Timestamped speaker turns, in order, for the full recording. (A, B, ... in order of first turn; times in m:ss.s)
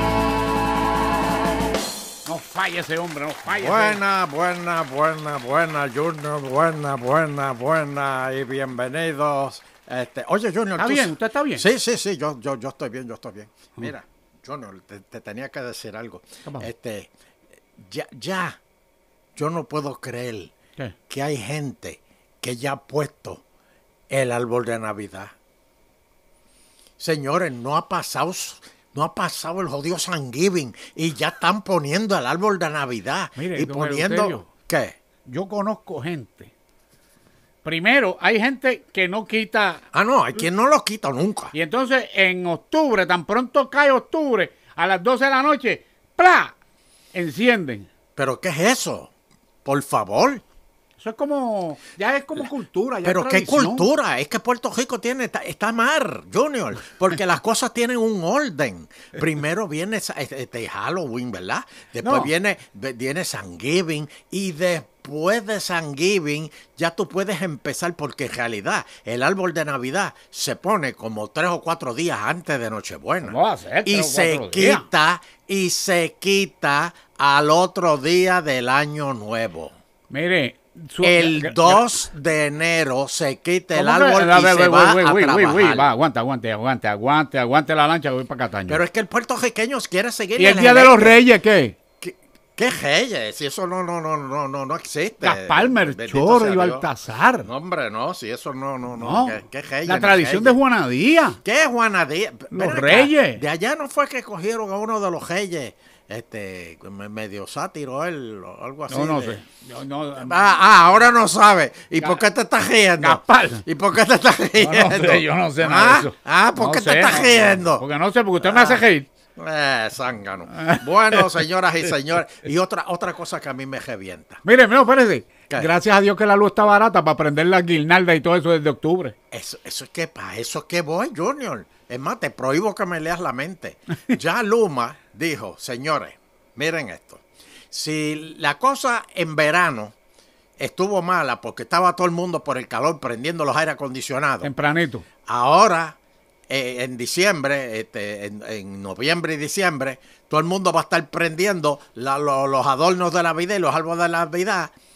0:02.2-0:04.0 A
0:03.5-0:17.1 B
0:10.8-0:11.7 A
0:17.8-0:18.6 B
0:19.4-0:20.5 B
0:21.1-0:23.4 B
0:24.1-0:25.4 B
0:27.0-0:35.0 B
0:33.4-0:34.5 A
0:35.3-0:36.5 A
0:37.6-0:39.8 A
0:39.9-0:41.5 B
0:41.5-0:46.6 A
0:47.1-0:47.9 A
0:48.2-0:49.1 B
0:49.6-0:50.4 B
0:51.0-0:53.9 A
0:53.0-1:19.8 B
1:02.0-1:02.3 A
1:13.2-1:14.9 A
1:20.1-1:22.0 A
1:21.0-1:25.9 B
1:23.7-1:28.8 A
1:28.7-1:31.2 B
1:30.4-1:31.8 A
1:32.0-1:36.9 B
1:35.2-1:37.5 A
1:37.4-1:40.6 B
1:39.0-1:41.4 A
1:41.4-1:49.4 B
1:42.5-1:43.4 A
1:48.9-1:50.4 A
1:50.2-1:57.8 B
1:53.0-1:53.7 A
1:54.6-1:59.1 A
1:58.4-2:04.4 B
2:00.5-2:01.4 A
2:04.4-2:09.2 A
2:09.3-2:20.0 B
2:20.6-2:24.5 B
2:24.4-2:25.1 A
2:25.2-2:26.0 B
2:26.5-2:34.7 B